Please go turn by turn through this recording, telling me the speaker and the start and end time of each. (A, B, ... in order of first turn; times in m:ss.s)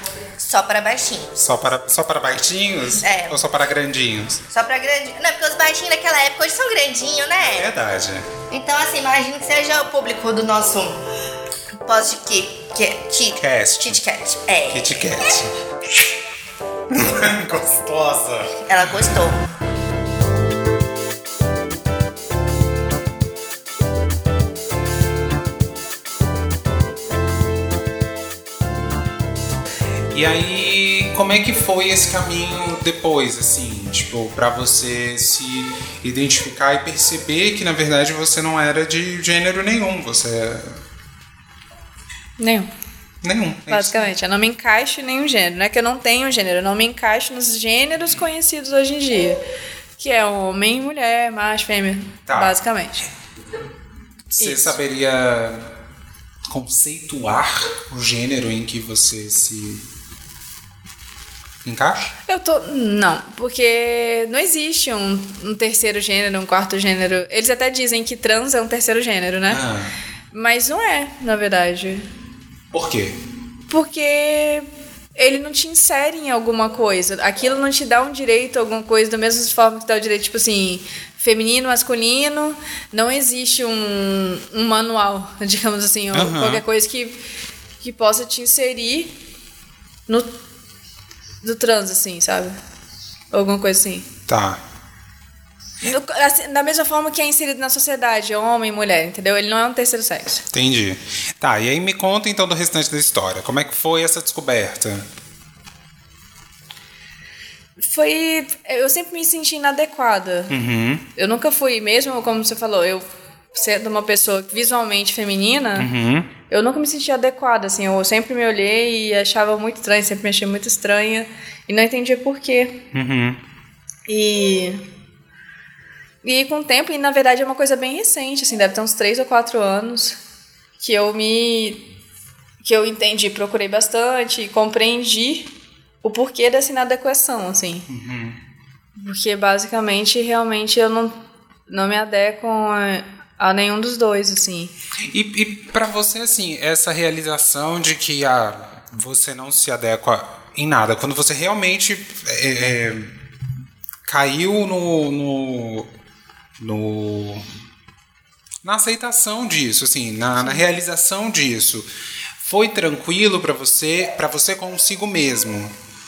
0:00.4-0:01.3 A
0:01.4-0:04.4 B
0:03.0-0:03.4 A
0:04.5-0:07.7 A
0:07.4-0:08.3 B
0:08.5-0:11.0 A
0:11.8-0:15.0 A
0:13.4-0:14.0 B
0:14.7-0:15.5 B
0:16.9-0:19.2 B
0:18.6-0:19.4 A
0:30.1-0:40.8 B
0:42.4-0:42.7 C
0:43.2-0:44.1 B
0:43.7-0:49.4 C
0:50.0-0:53.1 C
0:52.3-0:52.6 B
0:54.3-0:55.7 B
0:54.4-0:54.8 C
0:56.5-0:59.9 B
1:01.6-1:02.1 B
1:02.3-1:09.6 C
1:09.5-1:09.9 B
1:10.3-1:12.1 C
1:12.7-1:13.2 B
1:13.7-1:27.2 C
1:26.1-1:26.6 B
1:27.8-1:29.2 C
1:30.1-1:30.3 C
1:31.4-1:32.6 C
1:33.3-1:34.1 C
1:34.3-1:34.6 B
1:35.8-1:40.4 C
1:40.5-1:45.1 B
1:47.8-1:50.5 C
1:50.5-1:51.0 B
1:51.2-1:55.9 C
1:55.8-1:56.3 B
1:56.5-2:02.8 C
2:02.9-2:03.4 B
2:04.1-2:04.8 C
2:06.2-2:10.2 C
2:10.8-2:11.8 C
2:12.6-2:15.5 C
2:16.0-2:17.9 C
2:17.9-2:18.4 B
2:18.9-2:24.7 C
2:25.0-2:33.2 B
2:34.0-2:35.9 B
2:36.6-2:37.4 B
2:38.6-2:45.7 B
2:40.4-2:40.6 C